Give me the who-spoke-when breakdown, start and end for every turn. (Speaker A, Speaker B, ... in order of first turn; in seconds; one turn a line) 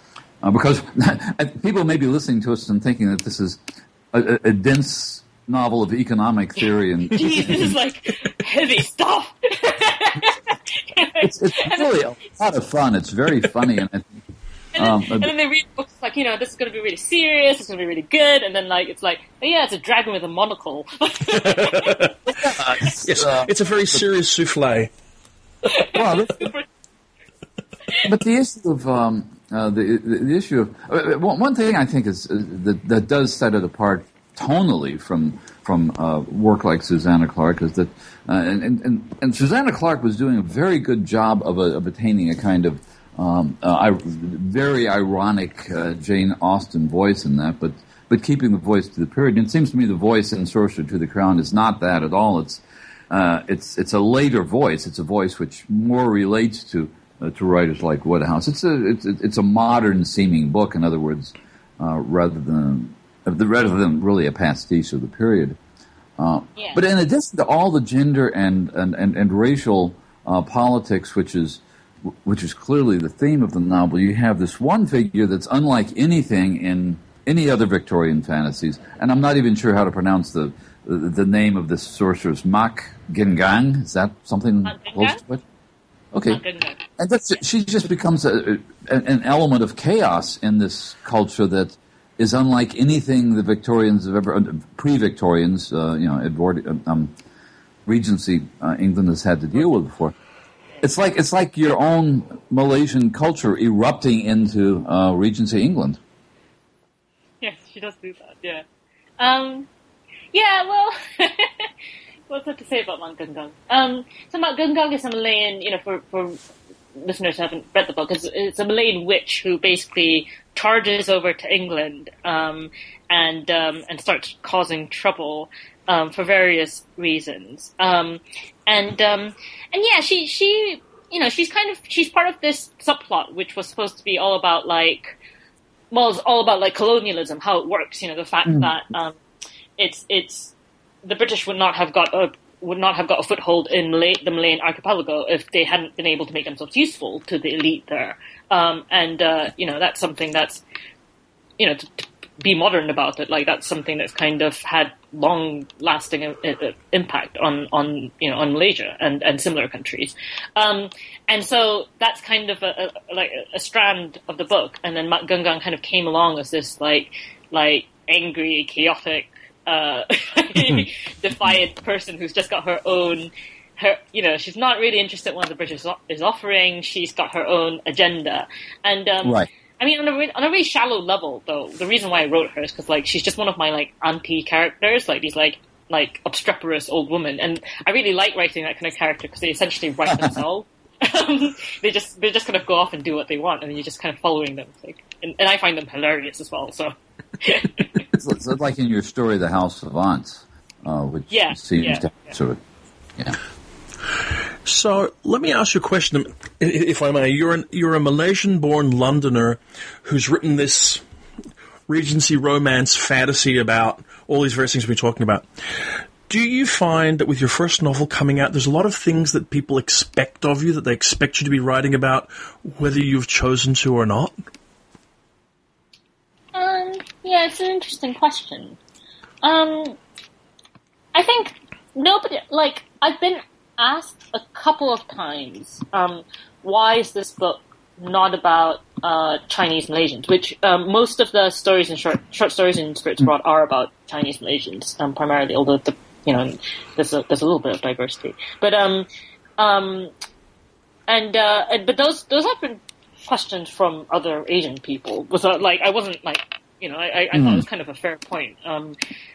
Speaker A: 0.4-3.6
Speaker A: 4.1-7.7
Speaker B: 7.1-12.0
Speaker A: 11.2-14.2
Speaker B: 14.7-22.1
Speaker A: 14.8-15.3
Speaker C: 21.4-22.1
Speaker A: 22.3-24.0
Speaker C: 22.9-24.9
Speaker B: 25.7-26.7
Speaker A: 25.9-26.5
Speaker A: 28.0-65.6
Speaker A: 66.2-71.6
Speaker B: 66.5-66.8
Speaker A: 72.2-85.4
Speaker B: 84.6-85.2
Speaker A: 86.1-86.4
Speaker B: 86.2-86.8
Speaker A: 87.0-97.1
Speaker A: 97.8-100.1
Speaker A: 100.8-106.0
Speaker B: 107.4-108.6
Speaker B: 109.2-109.7
Speaker B: 110.3-111.7
Speaker B: 112.3-116.4
Speaker B: 117.0-135.2
Speaker B: 135.9-139.2
Speaker A: 138.4-138.7
Speaker B: 139.8-150.6
Speaker B: 151.6-197.9
Speaker A: 179.2-179.5
Speaker A: 198.1-202.6
Speaker B: 201.3-202.1
Speaker C: 204.6-211.0
Speaker C: 211.9-224.3
Speaker B: 226.5-228.8
Speaker B: 229.4-230.0
Speaker B: 231.1-249.1
Speaker B: 249.6-250.1
Speaker B: 251.1-259.0
Speaker A: 257.3-257.6